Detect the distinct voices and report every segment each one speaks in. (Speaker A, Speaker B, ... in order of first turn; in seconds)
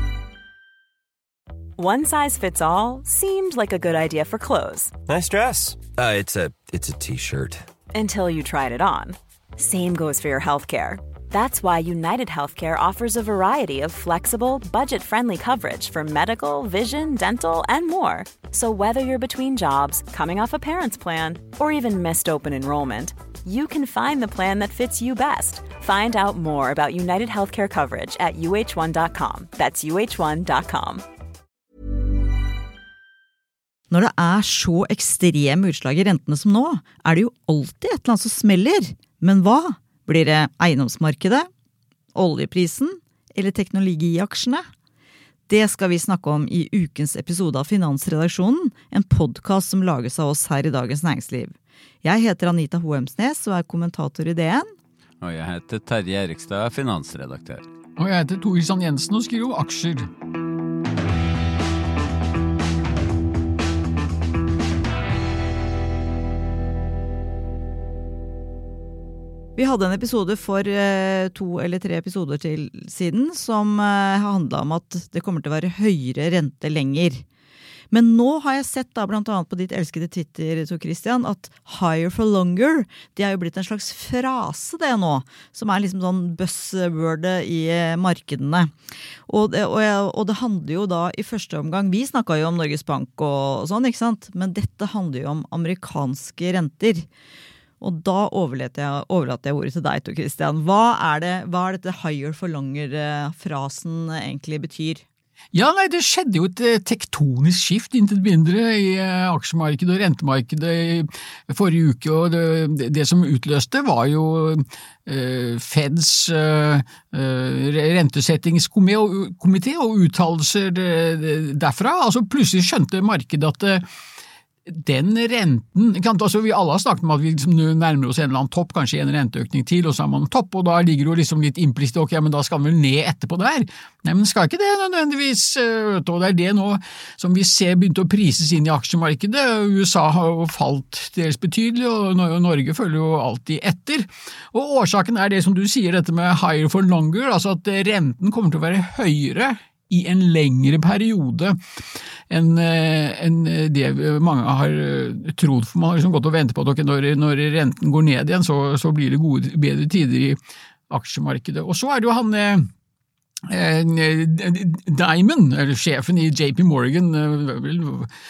Speaker A: 1.8-5.0, 7.9-31.0
Speaker B: 5.1-7.7
Speaker C: 33.9-41.5, 42.1-44.6, 45.5-54.7, 69.6-77.2, 77.9-88.7, 89.3-97.1, 97.8-105.0
Speaker D: 55.2-57.6
Speaker E: 58.0-60.1, 105.5-123.8, 124.7-151.6, 152.3-160.4, 160.9-162.7, 163.5-168.1